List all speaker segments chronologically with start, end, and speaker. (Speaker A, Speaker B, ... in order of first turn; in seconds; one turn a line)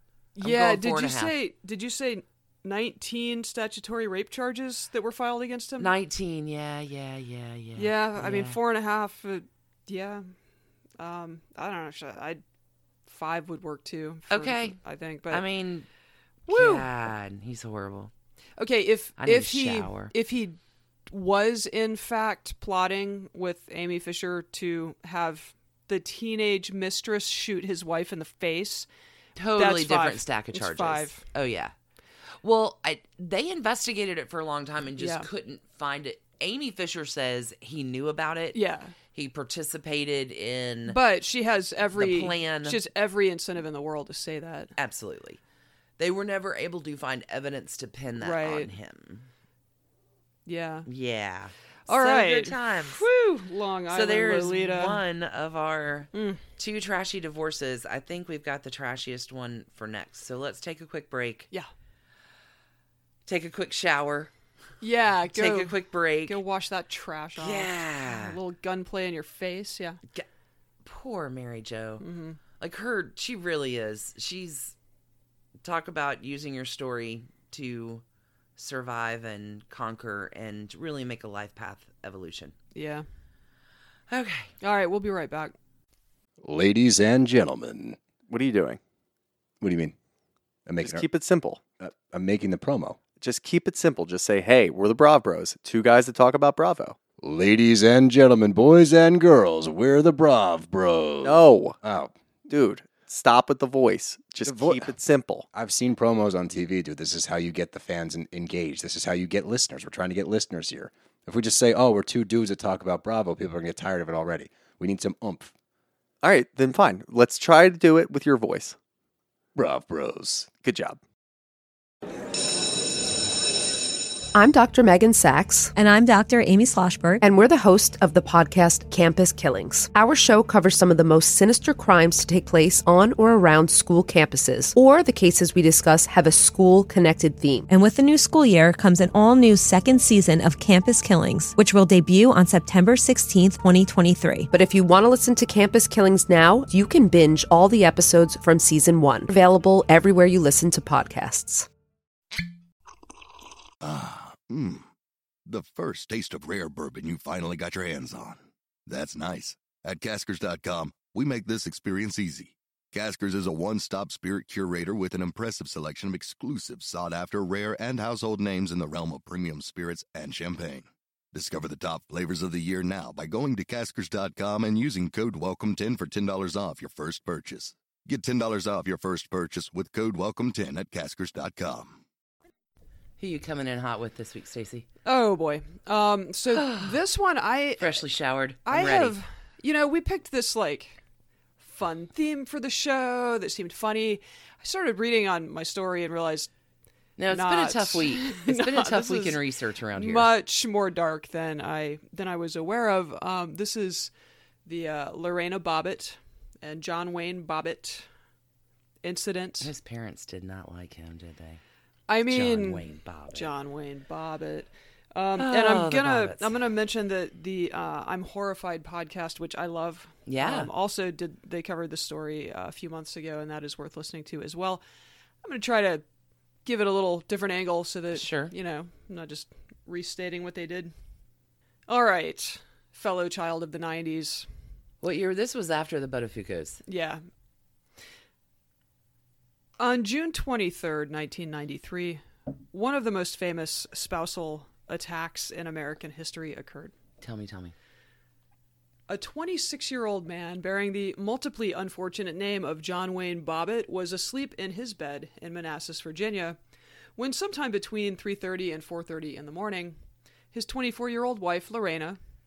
Speaker A: 0.4-5.9
Speaker B: 0.4-1.4
Speaker B: 5.8-8.6
Speaker A: 7.8-10.3
Speaker A: 11.0-12.4
Speaker A: 13.1-15.4
Speaker B: 14.3-14.8
Speaker B: 15.3-15.9
Speaker A: 16.5-16.9
Speaker B: 16.5-18.1
Speaker A: 18.6-20.6
Speaker B: 19.2-20.1
Speaker A: 21.1-28.9
Speaker B: 29.4-31.7
Speaker A: 29.6-31.2
Speaker B: 32.4-38.6
Speaker A: 35.0-35.3
Speaker A: 38.5-39.0
Speaker B: 39.1-41.0
Speaker A: 40.9-44.7
Speaker B: 41.9-42.8
Speaker B: 44.8-45.4
Speaker B: 46.0-49.3
Speaker A: 48.2-48.7
Speaker A: 50.5-50.9
Speaker B: 50.9-53.1
Speaker A: 51.9-55.0
Speaker B: 53.9-61.5
Speaker A: 56.1-56.5
Speaker B: 63.3-64.3
Speaker A: 64.8-70.0
Speaker B: 65.3-66.4
Speaker B: 67.4-68.4
Speaker B: 70.8-72.0
Speaker A: 72.0-72.4
Speaker B: 72.6-74.8
Speaker B: 75.6-78.0
Speaker B: 78.6-82.5
Speaker A: 82.7-83.1
Speaker B: 84.1-84.5
Speaker A: 84.6-85.5
Speaker C: 86.4-88.0
Speaker D: 88.3-88.8
Speaker C: 89.6-90.0
Speaker C: 90.7-91.1
Speaker D: 90.8-91.6
Speaker C: 91.8-93.0
Speaker D: 93.1-97.0
Speaker C: 97.2-102.1
Speaker D: 101.2-101.8
Speaker D: 102.5-105.5
Speaker C: 104.5-104.9
Speaker C: 105.5-115.5
Speaker D: 116.2-118.8
Speaker C: 119.5-120.5
Speaker D: 120.5-121.0
Speaker E: 124.3-125.8
Speaker F: 125.8-127.2
Speaker E: 127.2-137.7
Speaker F: 137.7-144.5
Speaker E: 144.5-151.7
Speaker G: 153.8-154.8
Speaker G: 155.5-182.0
Speaker B: 183.2-184.9
Speaker A: 185.1-188.0
Speaker B: 186.5-187.0
Speaker B: 187.8-189.2
Speaker A: 188.7-191.0
Speaker A: 191.6-196.5
Speaker B: 197.2-200.3
Speaker A: 197.3-199.4
Speaker A: 199.9-204.1
Speaker A: 204.7-208.1
Speaker A: 209.0-209.7
Speaker B: 209.6-211.6
Speaker A: 212.1-224.8
Speaker B: 212.3-213.5
Speaker B: 215.4-216.5
Speaker B: 220.3-220.7
Speaker A: 225.4-226.1
Speaker A: 226.7-230.9
Speaker B: 228.1-228.5
Speaker A: 231.9-234.5
Speaker B: 235.0-236.8
Speaker A: 236.9-237.2
Speaker A: 239.8-246.9
Speaker B: 247.2-247.7
Speaker A: 249.1-256.6
Speaker A: 257.2-260.0
Speaker A: 260.5-262.2